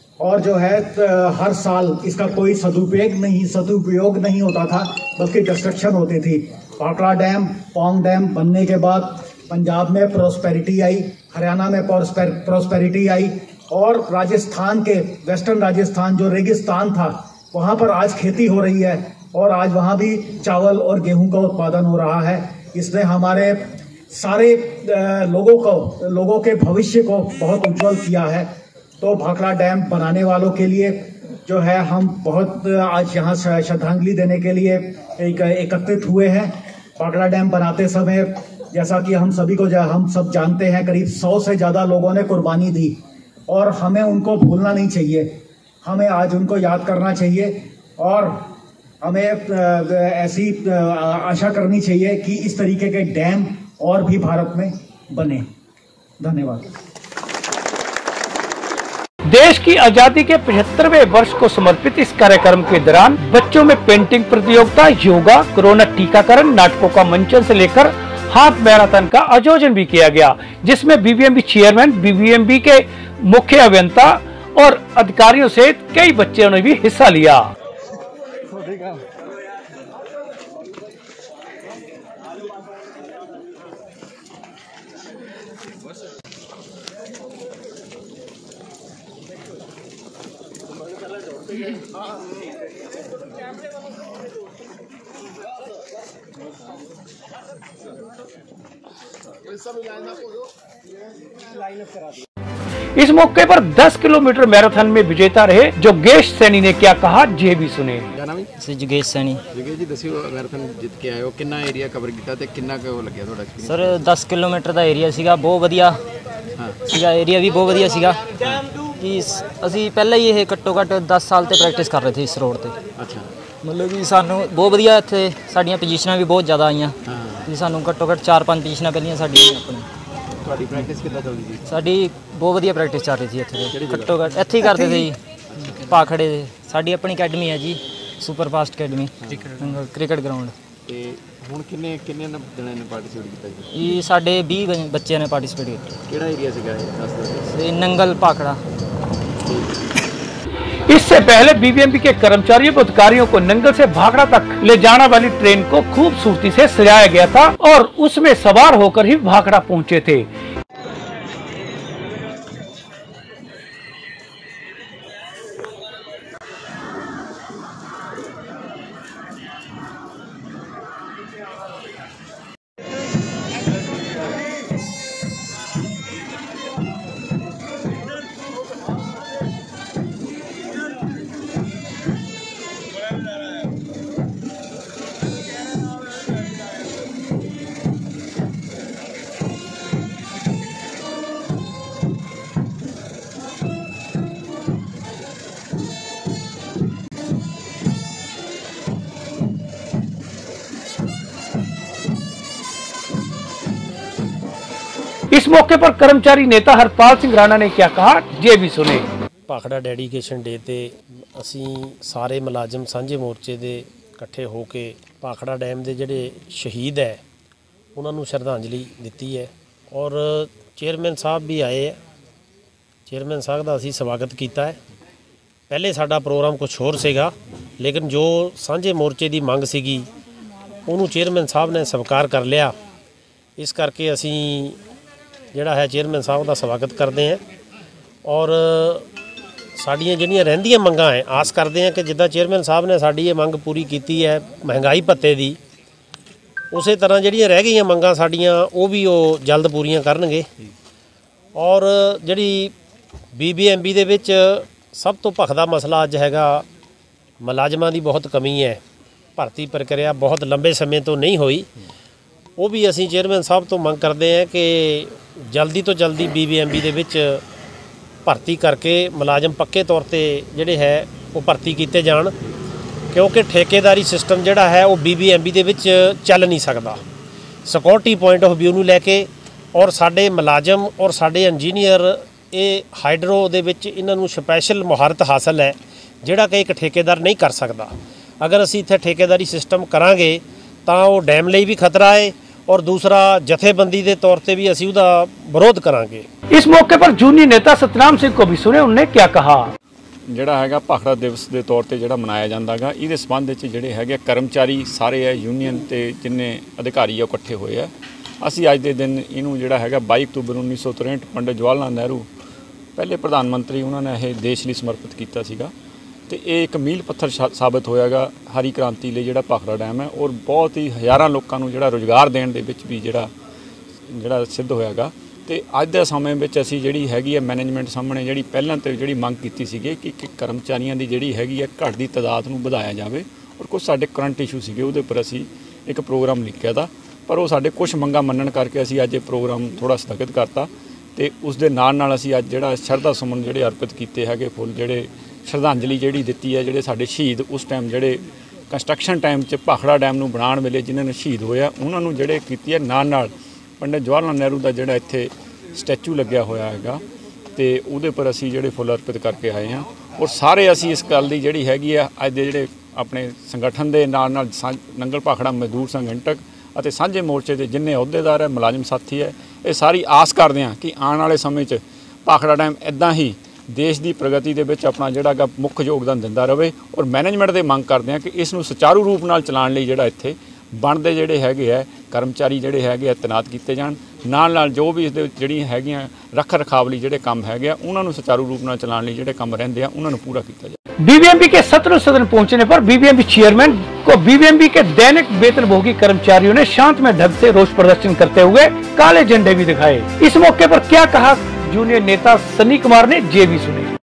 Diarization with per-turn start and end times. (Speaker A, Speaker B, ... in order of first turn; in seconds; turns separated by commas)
Speaker A: 0.2-28.5, Speaker A: 29.0-45.3, Speaker A: 45.8-48.5, Speaker A: 49.0-55.5, Speaker A: 56.2-56.7, Speaker B: 59.3-77.5, Speaker B: 103.0-108.2, Speaker C: 108.2-108.5, Speaker D: 108.6-109.4, Speaker C: 109.5-114.1, Speaker D: 113.6-116.0, Speaker D: 116.8-118.3, Speaker D: 119.0-122.8, Speaker C: 123.0-123.3, Speaker D: 123.6-129.9, Speaker C: 127.1-127.4, Speaker C: 130.4-131.7, Speaker D: 131.7-135.2, Speaker C: 133.7-134.2, Speaker D: 135.8-140.5, Speaker C: 140.9-143.7, Speaker D: 143.7-145.9, Speaker C: 146.1-147.5, Speaker D: 147.5-148.6, Speaker C: 149.4-149.8, Speaker B: 150.9-160.3, Speaker B: 205.3-209.1, Speaker E: 209.5-217.2, Speaker E: 217.9-222.0, Speaker E: 223.1-224.8, Speaker E: 225.7-230.1, Speaker E: 230.9-232.8, Speaker E: 233.6-234.8, Speaker E: 235.5-237.4, Speaker E: 238.2-239.1, Speaker E: 239.8-245.6, Speaker E: 246.7-250.5, Speaker E: 251.6-252.7, Speaker E: 253.3-256.6, Speaker E: 257.4-258.8, Speaker E: 259.4-261.7, Speaker E: 262.6-267.4, Speaker E: 268.3-272.3, Speaker E: 273.1-277.0, Speaker E: 277.7-296.3, Speaker B: 296.5-299.7, Speaker F: 300.3-312.3, Speaker F: 313.0-315.7, Speaker F: 316.3-323.3, Speaker F: 324.1-357.0, Speaker F: 357.6-390.8, Speaker B: 391.0-403.9